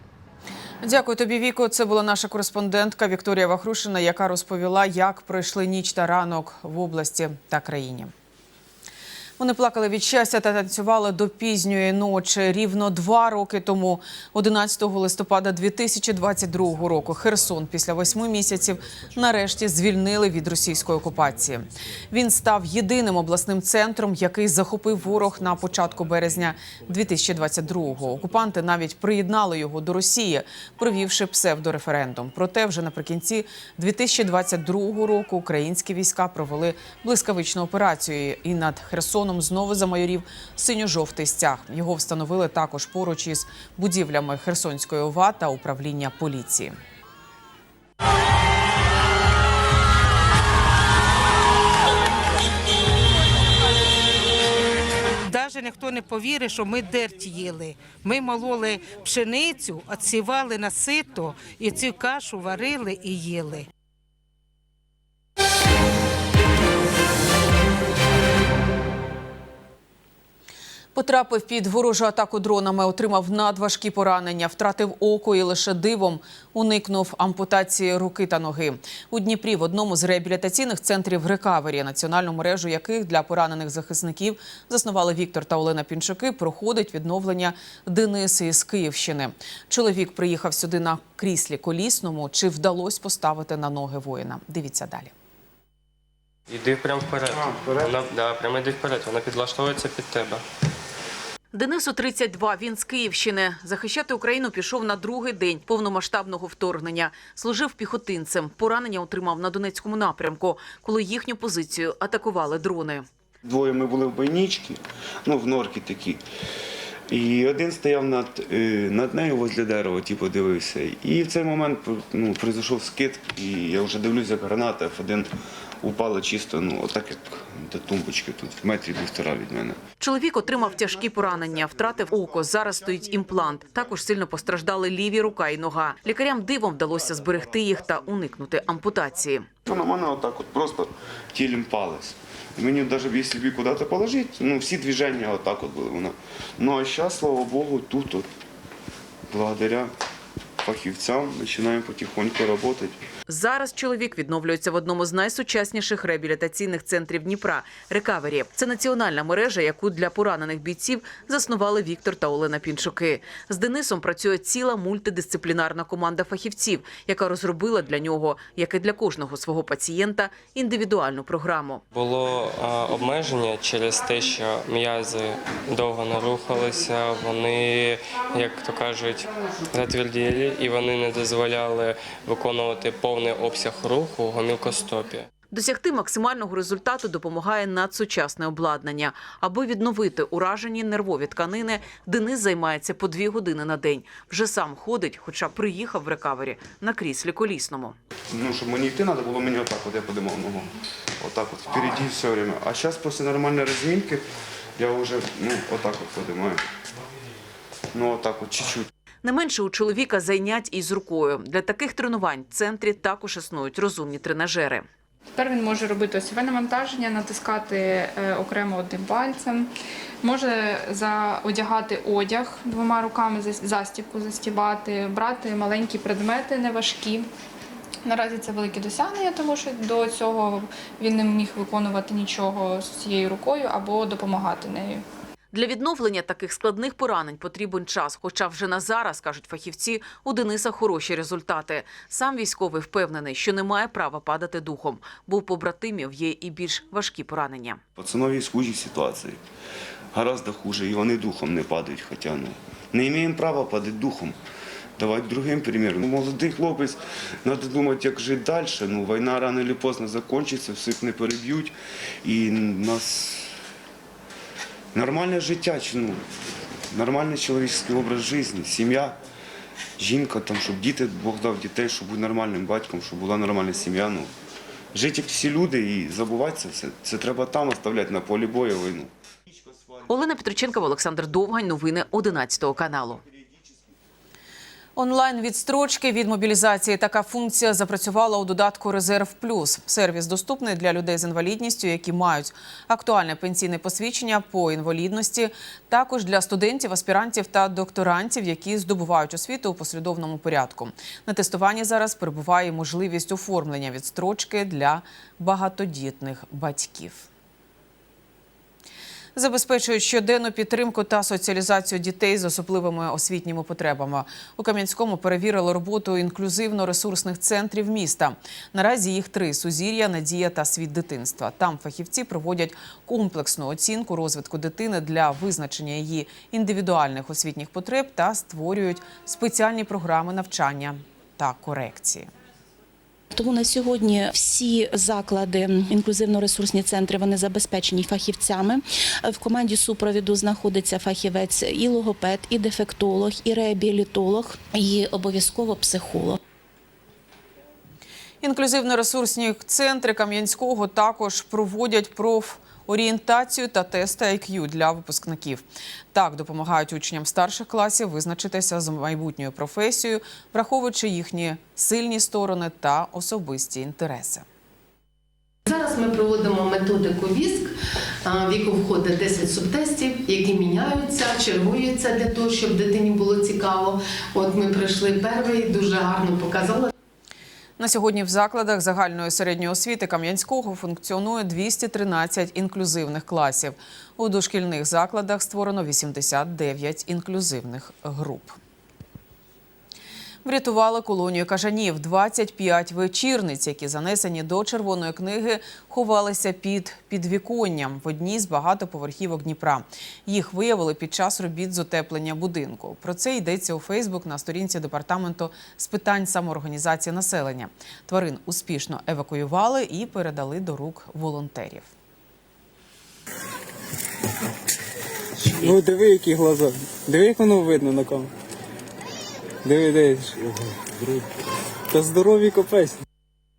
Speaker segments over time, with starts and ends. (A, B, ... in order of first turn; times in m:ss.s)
0:00.8-0:08.1 A
0:09.4-0:46.7 A
0:55.2-1:03.7 B
1:10.9-1:35.1 A
1:36.5-1:40.4 C
1:37.3-1:37.9 D
1:41.5-1:53.0 A
1:53.4-1:56.2 D
1:57.1-2:05.3 D
2:05.8-2:09.8 D
2:10.0-2:19.4 A
2:19.6-2:28.3 D
2:29.3-2:29.9 D
2:30.6-2:33.0 D
2:33.3-2:51.8 A
2:51.9-3:05.2 C
3:05.5-3:17.9 A
3:18.3-3:26.6 D
3:27.9-3:28.9 D
3:29.2-3:34.8 A
3:35.3-3:39.7 E
3:40.2-3:47.3 E
3:48.0-3:55.0 E
3:55.5-4:07.8 A
4:08.0-4:09.4 D
4:10.1-4:14.4 D
4:15.0-4:23.5 D
4:24.9-4:26.2 D
4:26.9-4:29.2 D
4:30.0-4:34.3 D
4:34.9-4:39.1 D
4:40.1-4:43.2 A
4:45.0-5:07.3 A
5:09.3-5:32.3 A
5:33.3-5:46.4 F
5:48.4-6:04.4 A
6:05.7-6:07.7 G
6:08.2-6:16.9 G
6:17.8-6:28.6 A
6:30.4-6:51.9 A
6:55.6-6:58.2 H
6:59.7-7:00.2 H
7:01.9-7:02.9 H